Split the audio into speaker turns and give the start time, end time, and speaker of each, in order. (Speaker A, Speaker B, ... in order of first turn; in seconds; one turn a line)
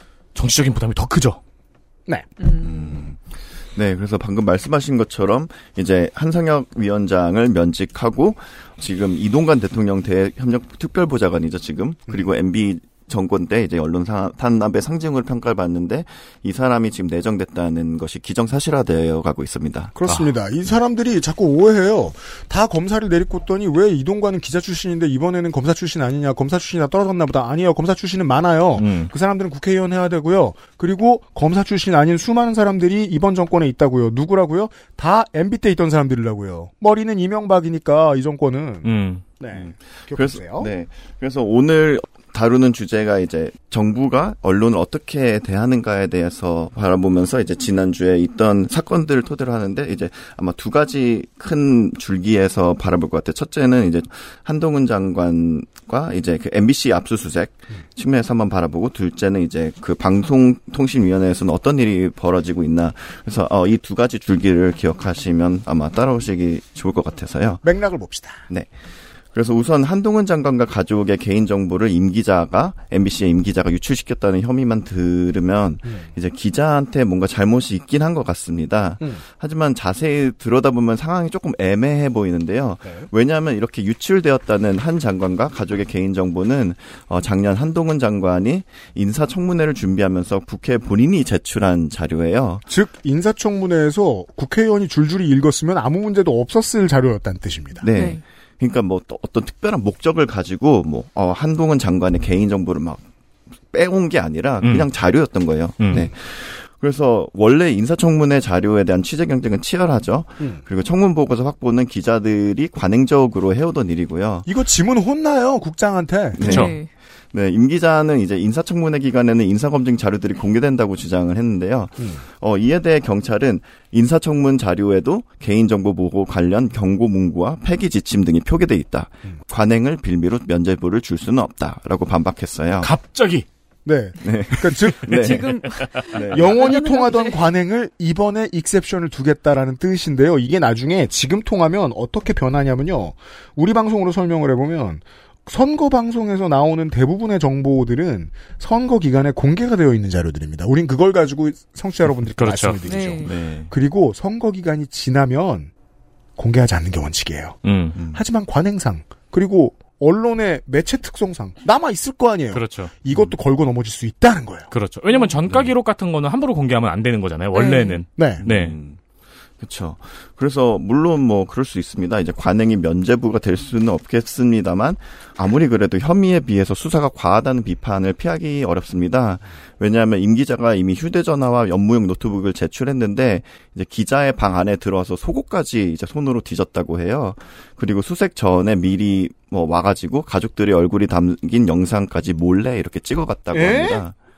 Speaker A: 0.3-1.4
Speaker B: 2.4-3.0
Speaker C: 2.6-19.9
Speaker D: 19.9-40.7
Speaker A: 28.8-29.1
Speaker A: 38.8-39.2
Speaker C: 39.5-67.6
Speaker D: 67.6-68.4
Speaker C: 68.5-68.8
Speaker C: 69.3-92.7
Speaker D: 75.8-76.1
Speaker D: 82.8-83.1
Speaker D: 92.7-97.8
Speaker C: 97.8-103.0
Speaker B: 97.9-98.2
Speaker C: 103.7-114.5
Speaker A: 104.6-104.9
Speaker A: 105.8-106.1
Speaker D: 114.5-116.4
Speaker C: 116.4-116.7
Speaker A: 116.4-116.7
Speaker B: 116.4-116.9
Speaker C: 117.3-132.9
Speaker A: 132.8-133.4
Speaker D: 133.8-135.4
Speaker C: 134.2-136.7
Speaker B: 135.1-137.4
Speaker D: 136.3-155.7
Speaker A: 152.4-152.8
Speaker B: 152.9-153.3
Speaker C: 153.2-153.7
Speaker D: 156.4-164.7
Speaker A: 157.6-158.0
Speaker C: 157.9-158.2
Speaker A: 162.5-162.9
Speaker A: 164.7-168.8
Speaker B: 167.5-168.0
Speaker D: 168.2-168.4
Speaker C: 168.4-169.0
Speaker C: 169.6-194.1
Speaker D: 193.5-194.0